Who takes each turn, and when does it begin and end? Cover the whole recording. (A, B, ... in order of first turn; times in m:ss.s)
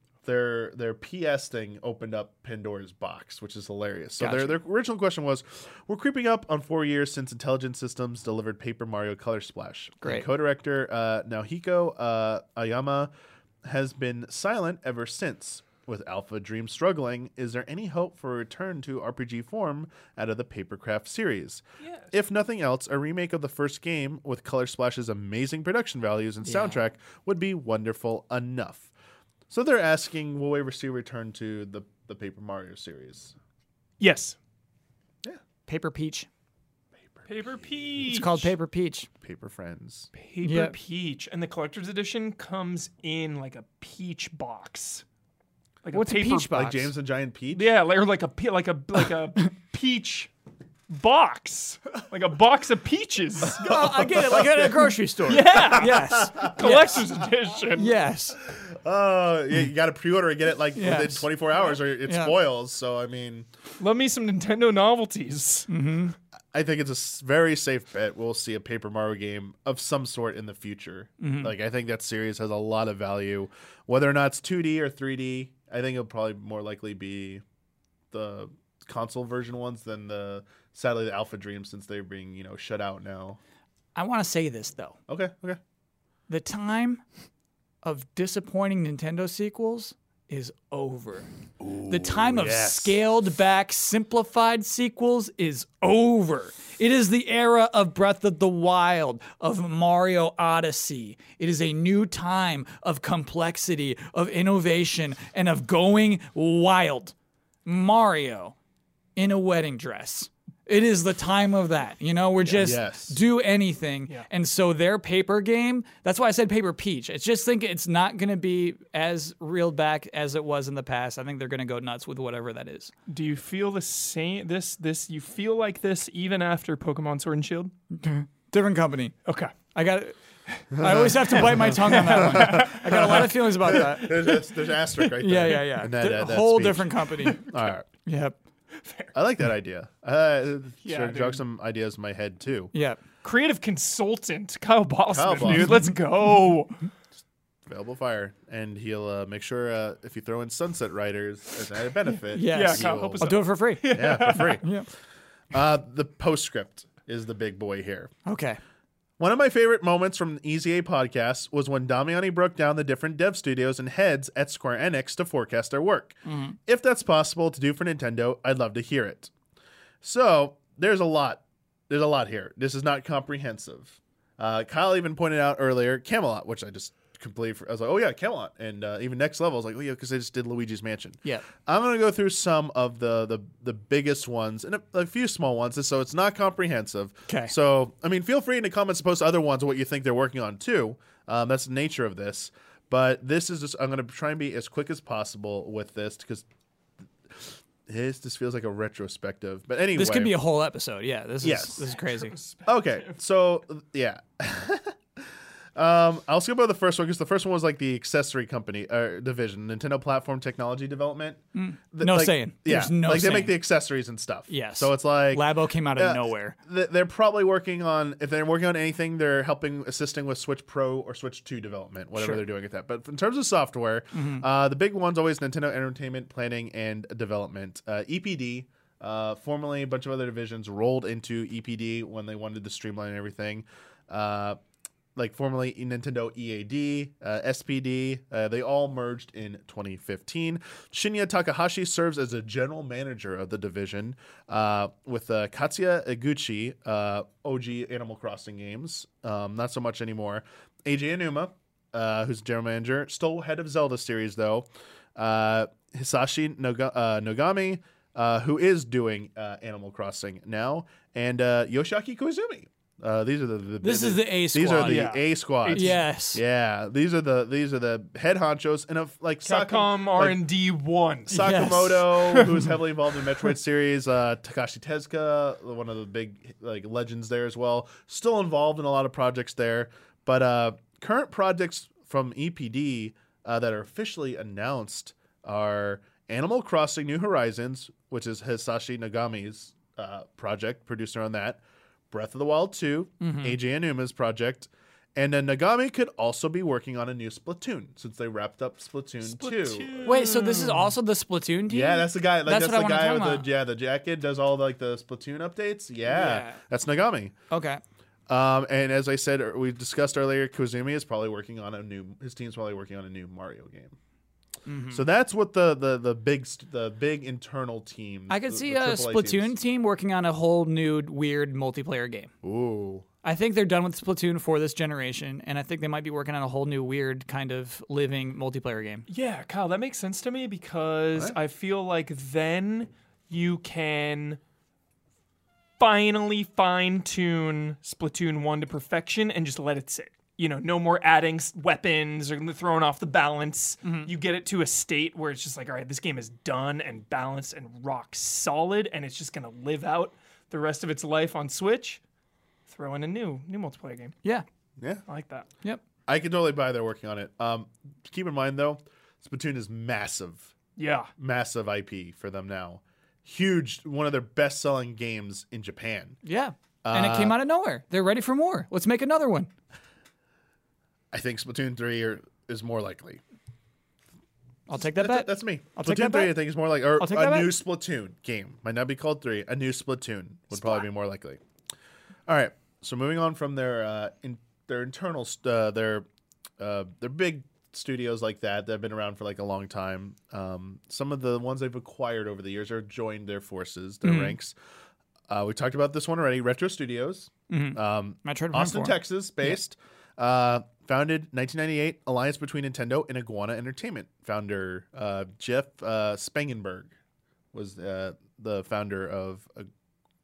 0:00.2-0:13.1 A
0:04.2-0:04.6 B
0:10.0-0:10.3 B
0:13.6-0:28.9 A
0:21.8-0:22.1 C
0:26.4-0:26.8 B
0:29.5-0:33.3 A
0:34.0-0:34.4 C
0:35.7-0:36.3 B
0:37.1-0:37.6 A
0:37.3-0:38.5 C
0:38.0-0:39.1 B
0:39.2-0:40.1 A
0:40.2-0:45.0 C
0:40.4-0:40.8 B
0:45.8-0:46.6 C
0:45.9-0:46.9 B
0:46.5-0:47.7 A
0:47.5-0:50.3 C
0:50.9-0:54.1 C
0:53.5-0:57.1 B
0:53.6-0:54.9 A
0:55.3-0:57.9 C
0:55.5-0:56.8 A
0:57.7-0:58.4 B
0:58.4-1:03.5 A
1:00.8-1:01.3 B
1:02.0-1:02.4 B
1:03.8-1:05.7 C
1:05.7-1:06.2 B
1:06.5-1:17.4 A
1:11.2-1:11.5 B
1:18.1-1:23.4 A
1:24.0-1:25.0 B
1:25.1-1:25.6 A
1:26.3-1:27.0 B
1:27.8-1:31.3 B
1:31.6-1:33.0 A
1:31.9-1:47.1 B
1:47.7-1:48.6 B
1:49.2-2:02.9 B
1:52.6-1:53.2 A
2:03.1-2:07.7 C
2:07.9-2:09.2 B
2:09.3-2:09.6 C
2:09.7-2:14.3 B
2:10.7-2:17.9 A
2:11.1-2:14.5 C
2:15.2-2:17.4 B
2:18.0-2:18.4 B
2:18.8-2:19.1 C
2:19.1-2:22.7 A
2:20.8-2:21.4 C
2:22.7-2:23.0 B
2:23.2-2:26.8 C
2:25.1-2:25.8 A
2:27.7-2:33.4 A
2:32.3-2:34.9 B
2:32.5-2:34.6 C
2:33.9-2:34.7 A
2:35.5-2:38.1 A
2:38.2-2:38.6 B
2:39.2-2:49.3 A
2:46.2-2:46.6 B
2:50.0-3:16.4 A
3:07.3-3:07.5 B
3:17.3-3:20.4 A
3:19.9-3:22.4 B
3:21.4-3:22.0 A
3:21.9-3:23.2 C
3:22.6-3:31.4 A
3:31.5-3:33.6 B
3:31.9-3:54.6 A
3:34.5-3:36.6 B
3:42.2-3:42.4 B
3:44.1-3:44.4 B
3:55.2-4:30.4 A
4:23.8-4:25.1 B
4:24.8-4:26.0 C
4:25.7-4:26.4 B
4:29.4-4:31.5 C
4:31.3-5:00.1 A
4:31.4-4:32.1 B
4:32.2-4:32.7 C
4:53.2-4:53.6 B
4:59.2-5:00.9 C
5:00.0-5:03.5 B
5:01.7-5:07.3 A
5:06.0-5:06.6 B
5:07.5-5:07.8 B
5:08.3-5:14.0 A
5:14.7-5:15.0 B
5:14.9-5:19.6 A
5:18.3-5:22.3 B
5:22.4-5:23.0 A
5:23.2-5:29.1 B
5:29.1-5:34.4 C
5:35.8-5:52.0 C
5:43.8-5:44.1 B
5:52.7-5:54.2 C
5:55.1-5:55.5 C
5:56.1-6:00.5 A
6:00.8-6:01.1 C
6:01.2-6:06.2 A
6:06.2-6:09.5 B
6:06.8-6:07.4 A
6:11.1-6:13.2 A
6:14.7-6:16.4 B
6:14.7-6:21.4 A
6:17.0-6:17.6 B
6:20.6-6:20.8 B
6:22.3-6:26.1 A
6:26.6-6:34.6 A
6:34.0-6:34.4 B
6:35.3-6:46.9 A
6:37.5-6:39.6 B
6:47.5-6:49.7 A